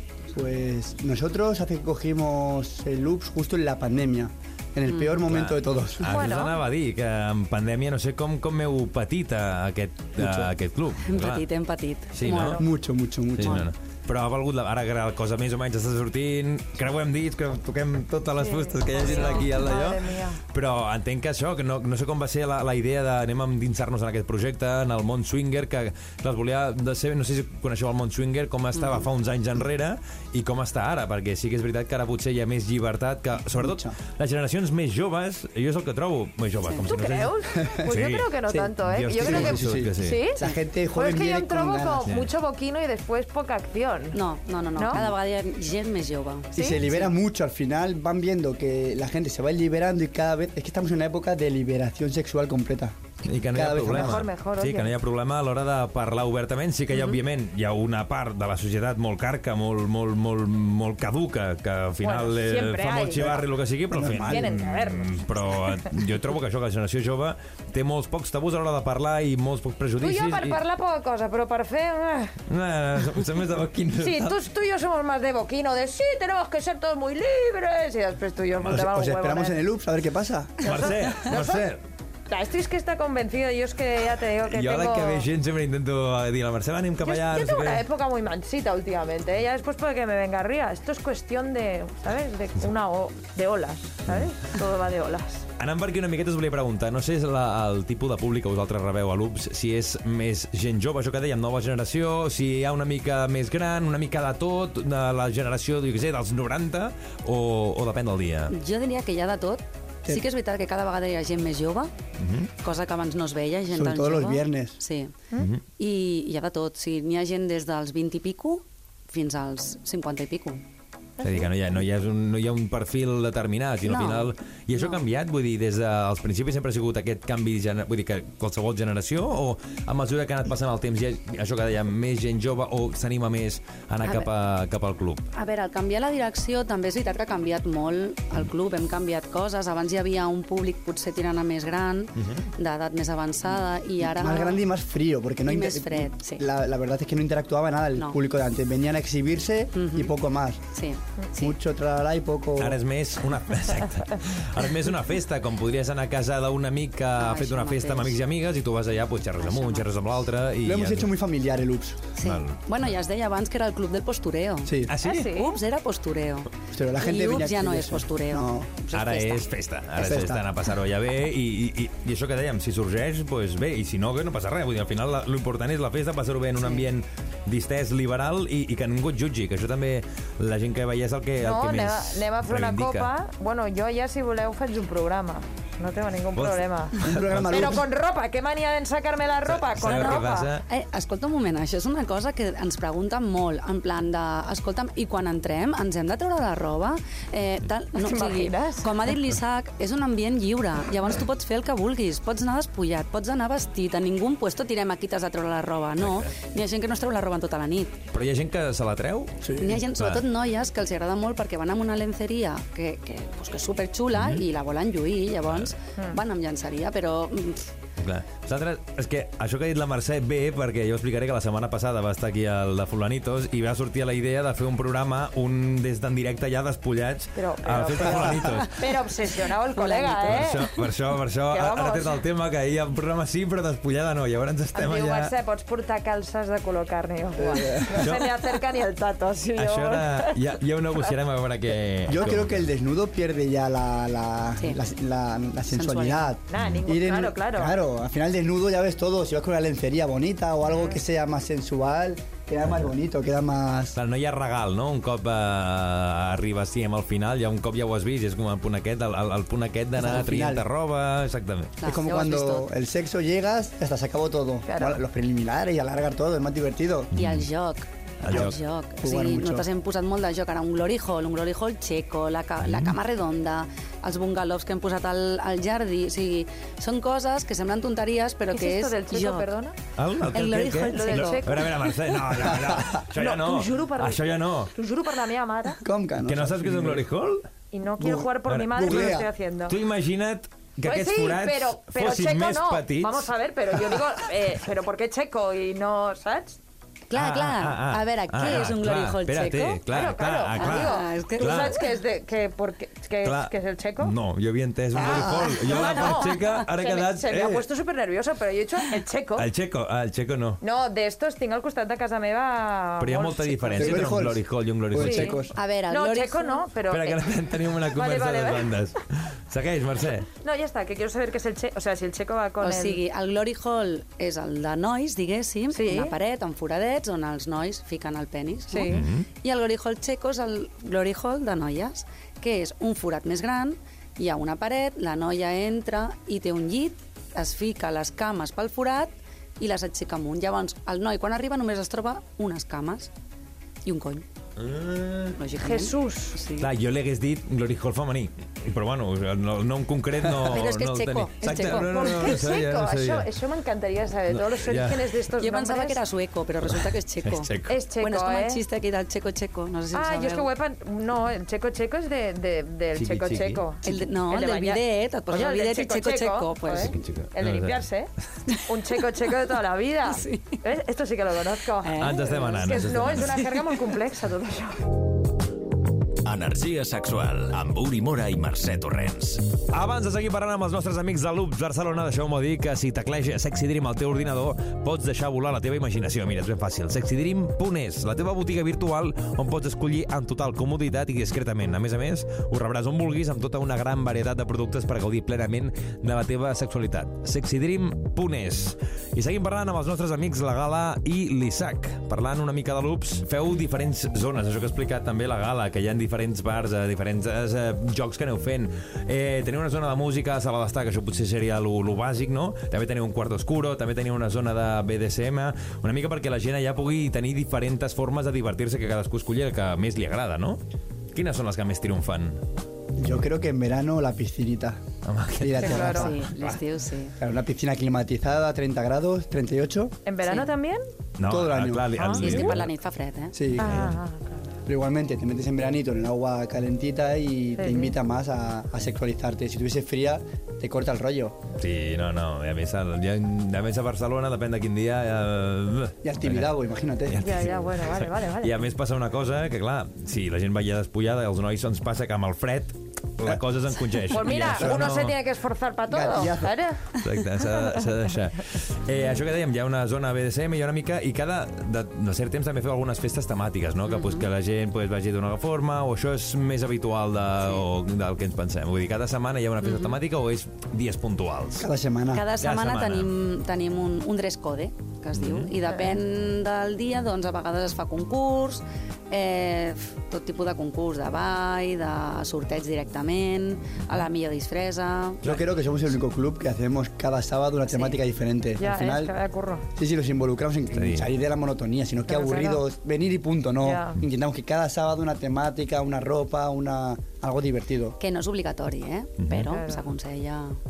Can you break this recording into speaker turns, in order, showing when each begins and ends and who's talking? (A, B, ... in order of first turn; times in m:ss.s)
0:00.3-0:06.3 A
0:05.2-0:11.4 B
0:06.0-0:06.6 C
0:10.2-0:10.5 A
0:11.0-0:12.7 D
0:12.1-0:12.6 B
0:12.5-0:13.7 A
0:13.4-0:40.2 B
0:13.4-0:13.7 D
0:18.4-0:20.4 C
0:28.8-0:29.1 D
0:33.5-0:34.0 A
0:36.8-0:40.4 C
0:37.5-0:37.8 A
0:38.5-0:42.1 A
0:40.9-0:44.2 C
0:42.1-0:42.3 B
0:44.1-0:47.1 D
0:46.5-0:53.0 A
0:53.2-1:10.6 B
0:53.5-0:54.2 A
0:53.9-0:54.9 C
1:02.0-1:03.4 C
1:03.9-1:04.5 A
1:04.2-1:05.8 C
1:10.0-1:12.4 C
1:12.5-1:14.3 B
1:14.0-1:19.6 C
1:18.6-1:20.6 A
1:20.6-1:21.8 B
1:20.6-1:21.6 C
1:22.3-1:25.2 C
1:24.4-1:27.8 B
1:27.0-1:35.5 C
1:35.6-1:48.5 B
1:48.5-1:51.9 D
1:52.2-1:52.5 B
1:52.6-1:55.1 D
1:53.7-1:54.8 A
1:55.4-1:55.6 B
1:55.8-2:00.6 D
2:01.2-2:15.3 B
2:03.8-2:05.0 D
2:14.0-2:14.3 D
2:15.3-2:24.6 D
2:22.2-2:22.5 B
2:24.0-2:30.6 A
2:25.4-2:26.4 D
2:29.7-2:30.1 D
2:30.7-2:31.5 D
2:31.3-2:32.8 A
2:32.6-2:41.1 B
2:37.2-2:38.2 D
2:39.4-2:39.9 D
2:40.6-2:42.1 A
2:42.2-2:49.5 D
2:42.2-2:42.9 B
2:44.6-2:45.0 A
2:44.9-2:45.3 B
2:45.0-2:45.6 C
2:46.7-2:48.7 A
2:48.9-3:03.1 B
2:50.0-2:50.4 A
3:01.4-3:10.5 C
3:06.3-3:07.8 B
3:07.0-3:07.8 A
3:09.4-3:10.6 B
3:09.8-3:28.0 D
3:17.9-3:18.9 C
3:26.0-3:26.3 B
3:28.1-3:30.2 B
3:29.4-3:29.8 A
3:29.6-3:37.7 D
3:34.1-3:34.4 B
3:35.5-3:35.7 B
3:38.0-3:49.0 B
3:47.4-3:50.8 C
3:49.7-3:50.6 D
3:50.2-3:55.3 B
3:51.5-3:52.2 C
3:54.7-4:00.4 C
3:57.4-3:58.1 A
3:57.9-3:58.4 B
3:59.6-4:02.7 B
4:02.0-4:14.0 A
4:05.7-4:06.3 D
4:06.5-4:07.7 C
4:06.5-4:06.8 B
4:14.0-4:21.8 B
4:20.0-4:20.7 A
4:21.8-4:22.7 D
4:21.8-4:27.1 A
4:24.7-4:25.0 C
4:27.1-4:27.4 B
4:27.1-4:39.5 D
4:28.2-4:28.6 B
4:28.3-4:29.6 A
4:32.6-4:32.9 B
4:38.5-4:39.8 C
4:40.0-4:44.7 B
4:40.3-4:41.7 D
4:40.9-4:42.0 C
4:42.5-4:42.8 A
4:43.1-4:44.2 C
4:44.7-4:45.8 C
4:45.8-4:47.0 A
4:46.2-4:47.4 B
4:47.7-4:49.8 C
4:48.0-4:49.3 A
4:48.4-4:53.3 B
4:50.8-4:56.6 C
4:57.1-4:59.8 D
4:57.1-5:01.8 B
4:59.9-5:04.1 C
5:00.5-5:01.8 D
5:03.2-5:07.7 B
5:05.0-5:09.5 C
5:05.7-5:06.4 D
5:09.4-5:10.6 B
5:10.6-5:14.1 C
5:13.0-5:15.4 B
5:13.8-5:15.5 A
5:15.0-5:18.8 C
5:15.5-5:16.6 D
5:16.9-5:20.3 B
5:20.3-5:23.0 C
5:22.6-5:43.1 D
5:25.7-5:26.1 C
5:28.7-5:29.1 C
5:28.9-5:29.3 B
5:43.8-5:44.2 D
5:44.6-5:45.4 B
5:45.4-5:46.7 D
5:45.6-5:46.4 C
5:46.6-5:53.3 B
5:50.3-5:52.4 D
5:51.5-5:56.0 C
5:54.3-5:55.2 B
5:55.4-6:00.5 D
5:57.2-5:57.8 B
5:57.6-5:58.6 C
5:59.9-6:14.9 C
6:02.9-6:03.6 B
6:03.8-6:07.0 D
6:06.8-6:07.8 B
6:10.1-6:10.6 D
6:11.8-6:13.6 D
6:12.0-6:13.5 B
6:16.2-6:19.5 E
6:19.7-7:00.6 B
7:01.1-7:02.4 B
7:03.0-7:04.8 A
7:05.0-7:06.6 B
7:05.4-7:06.2 A
7:05.6-7:07.2 D
7:05.6-7:06.1 C
7:07.2-7:10.0 A
7:10.0-7:10.8 C
7:10.2-7:10.5 D
7:11.2-7:12.7 B
7:11.2-7:12.0 A
7:12.0-7:12.6 C
7:12.2-7:13.4 D
7:13.3-7:14.0 A
7:13.6-7:14.0 B
7:13.6-7:14.4 C
7:14.7-7:21.4 A
7:17.6-7:17.9 C
7:21.6-7:26.5 B
7:26.0-7:27.4 A
7:27.0-7:35.2 B
7:27.2-7:28.6 C
7:34.1-7:37.0 C
7:34.3-7:34.9 A
7:35.9-7:36.6 A
7:36.9-7:51.7 B
7:43.8-7:44.3 D
7:49.6-7:50.0 D
7:51.6-7:52.2 A
7:52.1-8:05.2 D
7:52.4-7:53.1 B
7:55.1-7:55.5 B
8:05.2-8:09.1 A
8:07.7-8:08.0 D
8:08.6-8:09.6 C
8:09.7-8:18.0 A
8:10.7-8:11.1 B
8:12.1-8:12.6 C
8:13.6-8:14.0 C
8:18.0-8:20.6 D
8:19.2-8:19.5 B
8:19.4-8:19.8 C